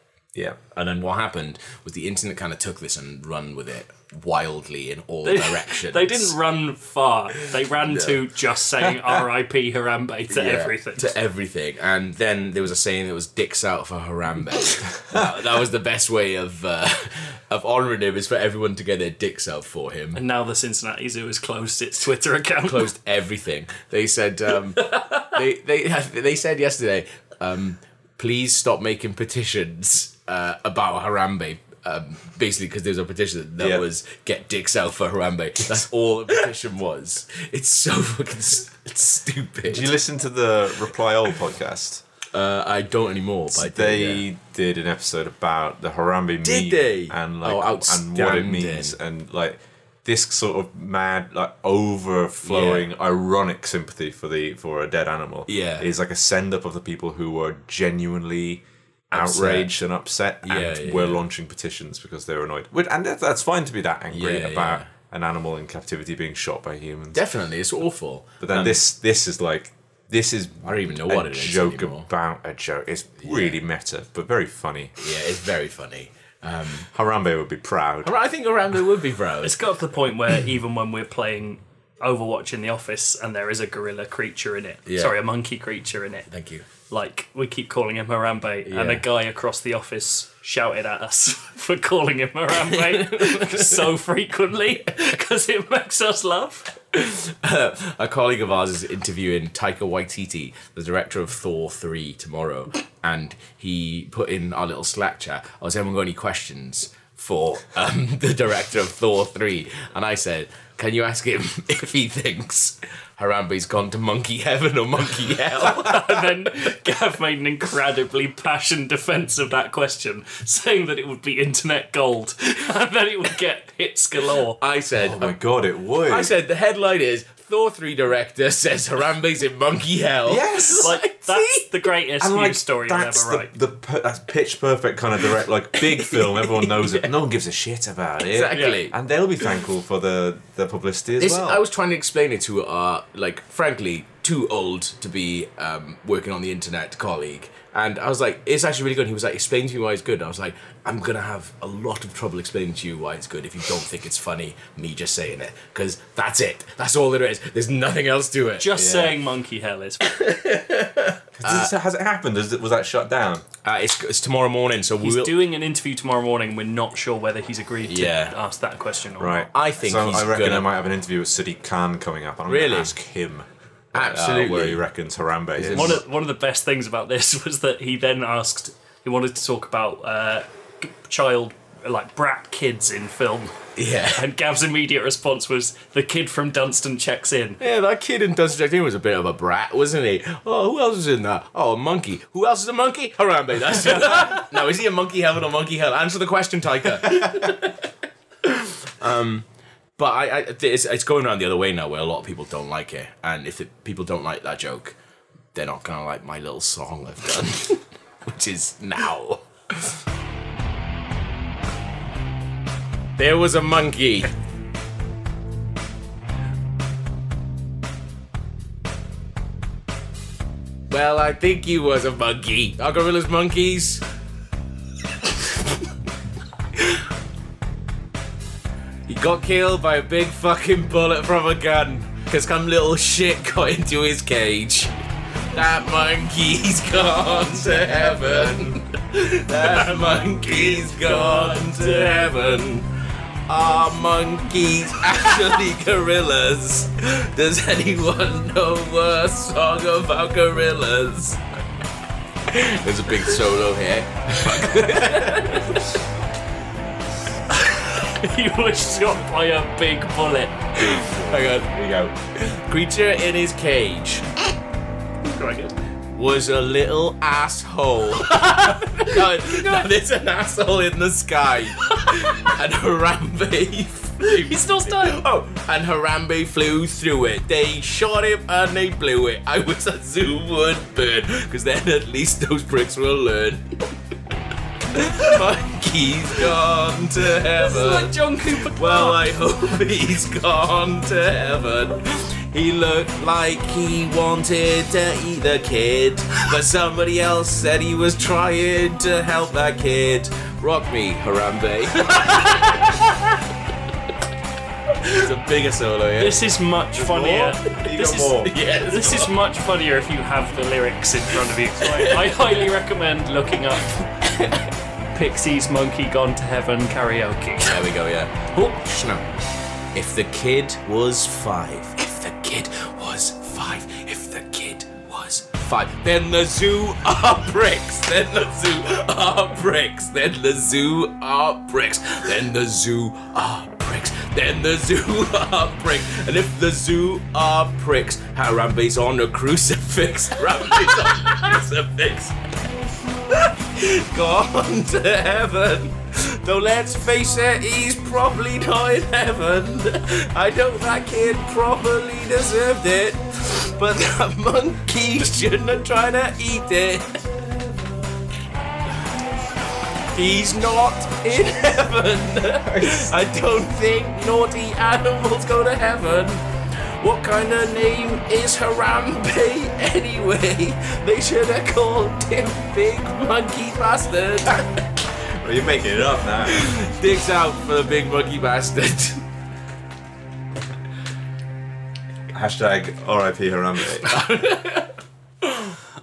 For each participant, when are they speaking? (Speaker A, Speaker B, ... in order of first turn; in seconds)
Speaker A: 0.7-6.3, 7.9-8.2, 10.3-20.2, 22.6-39.9, 42.3-44.2, 46.4-49.0, 52.4-52.9, 55.5-55.9, 59.1-59.7, 60.4-61.2, 64.1-64.9, 67.1-68.8, 70.6-72.1, 73.2-73.6, 75.0-76.9, 78.0-79.6, 84.9-85.1, 86.3-86.6, 88.7-89.0, 92.6-93.8, 96.9-116.4, 124.6-125.4, 126.1-131.7, 136.1-137.1, 138.3-138.9, 141.2-159.2, 160.0-161.7, 163.6-165.4, 167.8-168.3, 169.5-170.7, 172.5-172.9, 173.9-174.8, 175.6-176.0, 183.8-184.2, 187.6-197.9, 198.4-199.4, 200.0-204.9, 205.5-210.0, 213.2-214.3, 220.9-224.0, 229.1-234.9, 235.5-242.9, 243.5-251.4, 252.5-255.8, 260.8-264.2, 266.1-283.6, 284.9-288.2, 288.7-302.9, 305.0-306.4, 308.4-309.3, 311.8-312.3, 314.2-314.6, 317.6-319.3, 319.9-342.4, 343.3-357.3, 360.1-374.8, 376.5-379.2, 384.0-385.7
Speaker B: 5.2-11.1, 20.1-22.9, 24.9-25.3, 79.4-86.2, 86.9-96.7, 115.6-124.6, 130.8-133.5, 138.5-138.8, 158.6-160.1, 165.0-169.5, 175.7-183.6, 184.1-187.6, 237.5-238.5, 239.6-242.6, 254.6-255.7, 257.5-261.3, 265.2-265.7, 268.3-269.9, 274.3-275.2, 287.6-289.3, 302.0-302.7, 306.2-308.3, 308.9-314.1, 315.1-317.8
Speaker C: 33.6-33.8, 39.7-42.0, 43.5-67.2, 68.4-75.0, 76.9-78.1, 125.0-126.3, 130.2-130.9, 132.2-141.6, 161.4-163.4, 169.2-176.0, 306.9-308.6, 362.7-363.0, 375.3-376.8, 382.3-384.1